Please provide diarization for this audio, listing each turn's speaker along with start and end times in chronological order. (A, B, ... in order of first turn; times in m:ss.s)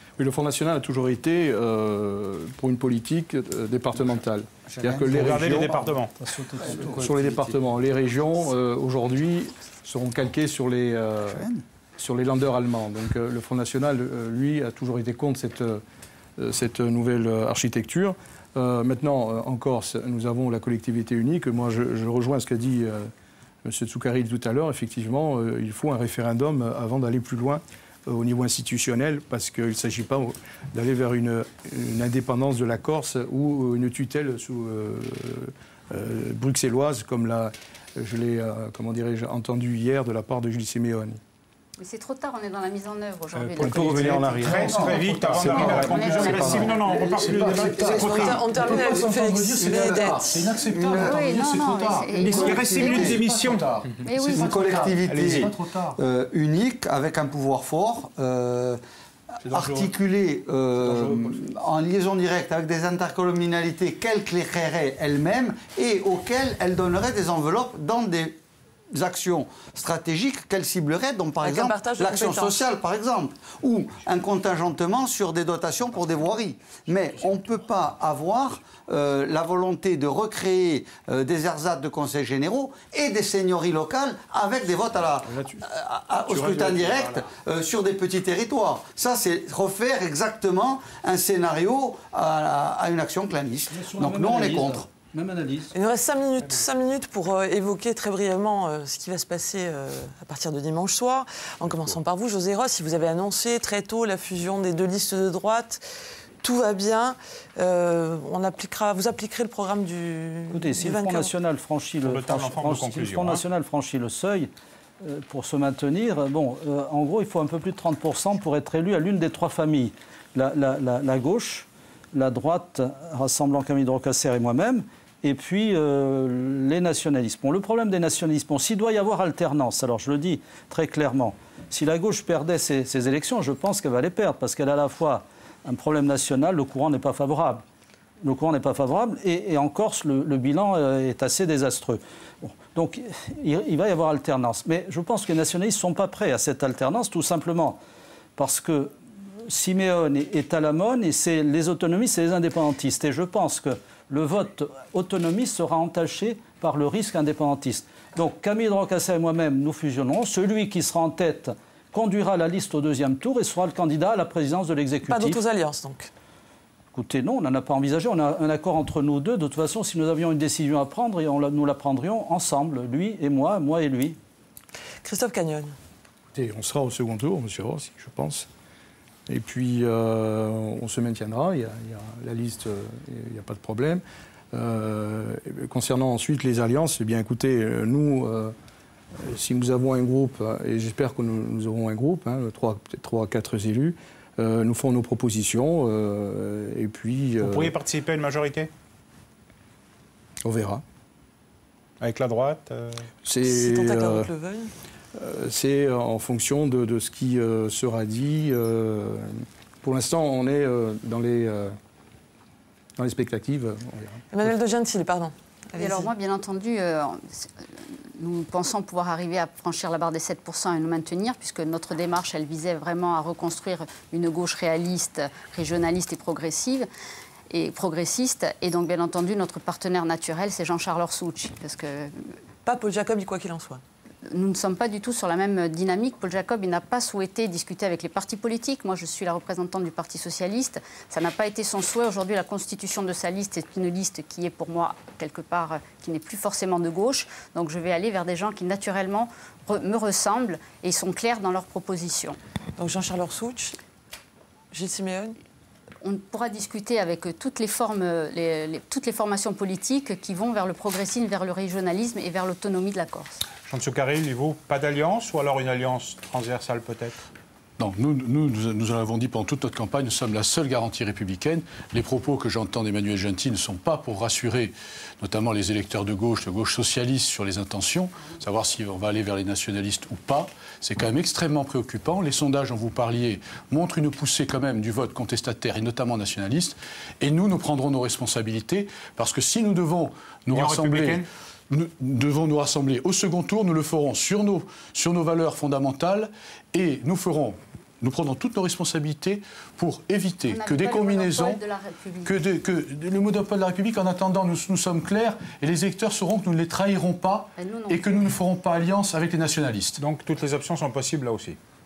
0:00.2-0:05.9 A
0:04.7-0:06.0 B
0:05.0-0:06.1 C
0:06.2-0:07.0 D
0:06.6-0:07.3 B
0:06.7-0:11.5 A
0:11.3-0:11.6 B
0:12.0-0:15.8 A
0:16.4-0:23.1 A
0:23.6-0:41.2 A
0:41.8-0:46.9 E
0:43.4-0:46.8 A
0:43.6-0:48.4 C
0:44.6-0:56.0 F
0:46.5-0:48.9 B
0:47.9-0:50.5 G
0:49.6-0:51.5 B
0:50.9-0:52.9 E
0:52.1-0:53.2 B
0:52.1-0:53.7 C
0:54.0-0:54.9 E
0:54.2-0:58.8 B
0:55.1-0:55.4 C
0:59.4-1:08.4 B
0:59.6-0:59.9 A
1:00.8-1:01.3 A
1:08.9-1:34.9 B
1:11.4-1:12.7 G
1:25.3-1:25.6 A
1:33.7-1:35.7 D
1:35.7-1:45.8 G
1:46.4-1:51.3 G
1:50.5-1:54.5 D
1:52.0-1:53.4 C
1:55.0-2:17.6 D
2:18.2-2:27.8 D
2:28.4-2:28.9 D
2:29.5-2:45.4 D
2:45.1-2:46.1 G
2:47.0-2:54.2 D
2:55.0-2:55.8 G
2:56.3-2:58.5 A
2:59.3-3:08.5 A
3:09.2-3:17.7 A
3:17.4-3:18.7 C
3:20.4-3:20.8 A
3:22.0-3:23.1 C
3:23.2-3:24.3 A
3:23.4-3:24.7 G
3:25.2-3:31.8 A
3:33.0-3:34.2 A
3:34.3-3:36.1 G
3:35.8-3:37.5 E
3:38.2-3:46.9 E
3:47.5-3:52.1 E
3:52.6-3:53.8 G
3:54.3-4:12.4 E
4:12.8-4:13.8 G
4:14.7-4:15.4 G
4:16.0-4:23.4 E
4:23.6-4:27.2 C
4:27.8-5:01.6 F
4:50.5-4:51.3 C
5:00.5-5:02.4 E
5:02.2-5:10.0 F
5:07.6-5:08.4 E
5:10.0-5:11.6 C